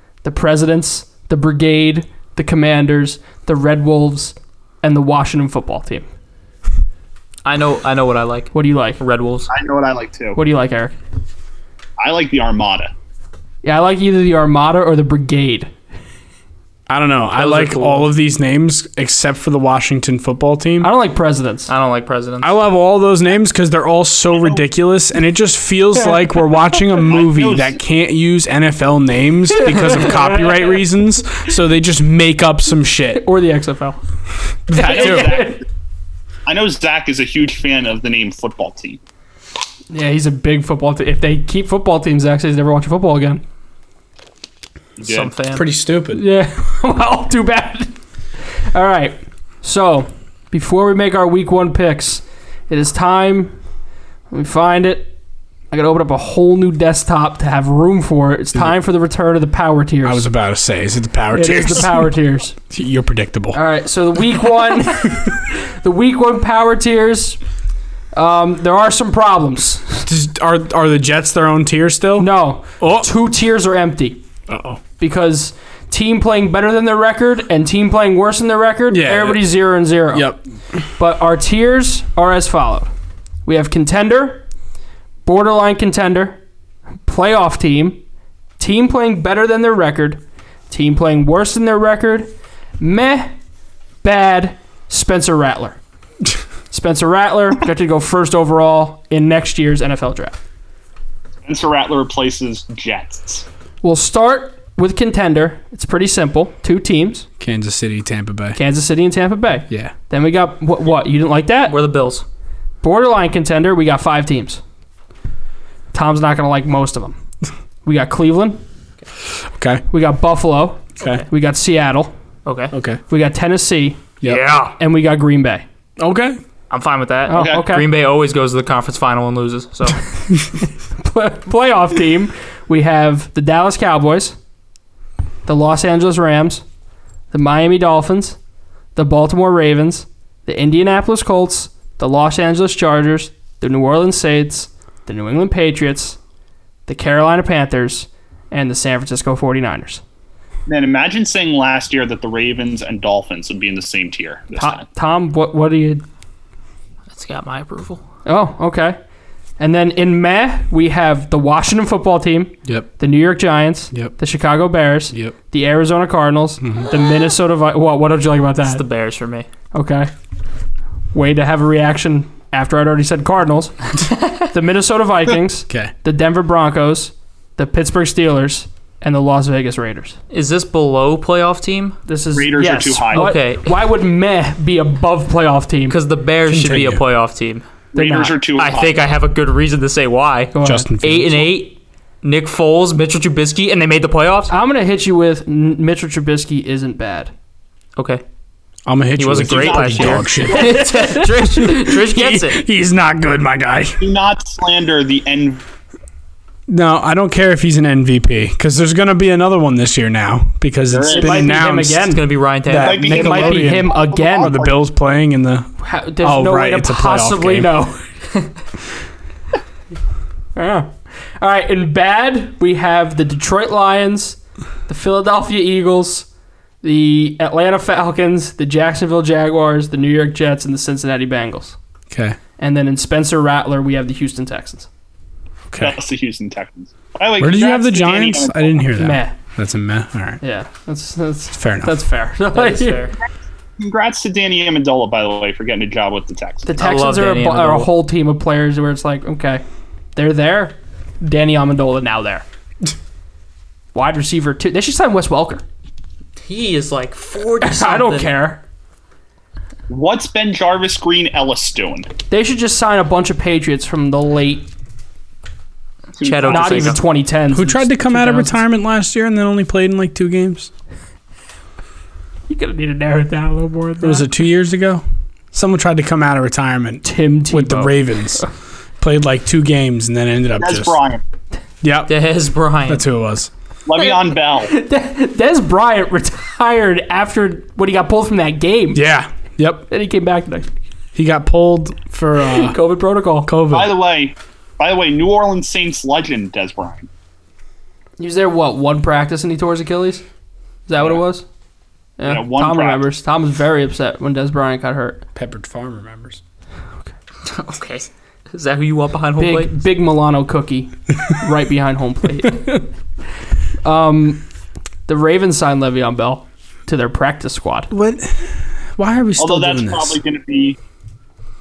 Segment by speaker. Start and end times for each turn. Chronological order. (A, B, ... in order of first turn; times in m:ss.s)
0:00.2-0:06.0 A
0:07.4-0:09.5 B
0:08.5-0:09.0 A
0:09.5-0:10.4 C
0:10.3-0:10.9 A
0:12.0-0:12.9 C
0:13.6-0:15.7 A
0:16.9-0:20.9 D
0:17.4-0:18.1 B
0:20.8-0:21.7 A
0:21.7-0:22.5 B
0:22.4-0:33.2 D
0:27.0-0:27.8 C
0:29.5-0:30.7 A
0:33.1-0:34.0 A
0:34.7-0:35.4 D
0:34.7-0:35.6 A
0:34.7-0:35.6 C
0:36.4-0:39.0 C
0:39.9-0:43.4 A
0:45.0-0:45.3 C
0:45.0-0:45.6 B
0:45.5-0:46.2 D
0:46.1-0:47.9 A
0:48.7-0:53.5 A
0:54.3-0:55.1 A
0:55.7-1:00.2 A
1:00.0-1:02.1 D
1:01.3-1:02.6 A
1:02.7-1:03.6 D
1:03.5-1:07.4 A
1:08.1-1:10.1 A
1:10.1-1:13.1 D
1:12.2-1:14.2 A
1:14.5-1:14.8 D
1:15.0-1:20.3 A
1:18.9-1:19.5 D
1:20.1-1:20.4 D
1:21.0-1:22.9 A
1:23.4-1:24.4 A
1:25.2-1:26.4 A
1:27.0-1:28.0 A
1:28.6-1:33.3 A
1:34.0-1:35.8 A
1:36.7-1:40.4 A
1:41.4-1:43.4 C
1:43.8-1:47.2 A
1:47.4-1:48.6 D
1:48.5-1:51.8 A
1:51.7-1:52.2 B
1:52.8-1:54.6 A
1:55.9-1:57.2 A
1:57.8-1:58.6 A
1:59.5-1:59.8 D
1:59.9-2:02.1 A
2:02.4-2:02.7 B
2:02.7-2:03.0 D
2:03.1-2:04.0 A
2:04.2-2:04.7 D
2:04.2-2:04.7 B
2:04.8-2:05.6 A
2:06.0-2:06.4 D
2:06.7-2:10.0 B
2:07.3-2:07.9 A
2:07.3-2:07.6 C
2:10.9-2:14.4 A
2:15.4-2:16.6 A
2:17.3-2:18.4 A
2:19.0-2:26.2 A
2:26.9-2:30.0 A
2:30.7-2:34.8 C
2:34.5-2:36.0 A
2:37.1-2:38.0 B
2:38.2-2:39.0 A
2:39.6-2:48.8 A
2:46.6-2:46.9 D
2:48.6-2:49.5 B
2:49.7-2:50.1 A
2:51.1-2:53.8 A
2:54.5-3:00.2 A
3:00.3-3:02.0 B
3:02.1-3:06.0 A
3:02.3-3:03.3 C
3:03.1-3:03.8 B
3:05.9-3:07.6 B
3:06.5-3:07.0 D
3:07.9-3:09.0 C
3:07.9-3:08.4 A
3:08.6-3:14.5 B
3:10.5-3:10.9 A
3:10.6-3:11.5 D
3:14.5-3:17.3 A
3:18.0-3:18.2 B
3:18.8-3:20.8 D
3:19.2-3:22.6 B
3:19.4-3:20.7 C
3:20.5-3:21.7 A
3:21.6-3:24.0 D
3:24.0-3:25.6 C
3:26.7-3:32.1 D
3:30.9-3:31.5 C
3:31.1-3:32.2 A
3:32.1-3:33.0 B
3:32.6-3:37.7 D
3:32.7-3:34.7 C
3:33.0-3:34.6 A
3:35.8-3:38.1 A
3:40.6-3:46.3 A
3:46.8-3:51.8 A
3:52.1-3:52.4 D
3:52.6-3:54.9 A
3:55.7-3:56.0 D
3:55.8-3:58.9 C
3:57.4-4:00.4 D
3:59.0-3:59.3 A
4:00.4-4:03.1 A
4:01.6-4:02.0 D
4:02.5-4:03.2 B
4:03.8-4:06.7 C
4:06.6-4:09.6 A
4:06.8-4:07.9 B
4:10.2-4:12.4 A
4:13.9-4:15.6 A
4:16.4-4:18.4 B
4:17.6-4:18.6 A
4:19.9-4:22.1 C
4:22.3-4:24.7 A
4:26.2-4:27.0 C
4:26.2-4:27.0 B
4:26.4-4:28.6 A
4:27.5-4:30.7 D
4:32.5-4:34.3 A
4:34.0-4:38.4 D
4:37.0-4:38.4 A
4:39.0-4:41.0 D
4:40.6-4:41.2 C
4:41.8-4:42.1 D
4:42.1-4:43.0 B
4:42.8-4:43.5 D
4:43.8-4:44.7 C
4:44.0-4:49.0 A
4:48.9-4:49.9 D
4:49.9-4:50.7 A
4:51.1-4:52.8 D
4:52.4-4:53.5 A
4:53.4-4:54.0 D
4:53.7-4:57.1 C
4:58.2-5:00.2 A
5:00.9-5:01.4 A
5:02.2-5:05.2 A
5:02.2-5:03.0 C
5:05.3-5:06.4 D
5:07.4-5:09.7 B
5:09.4-5:12.7 A
5:13.8-5:14.4 A
5:15.1-5:17.9 A
5:17.9-5:20.2 D
5:19.4-5:20.8 C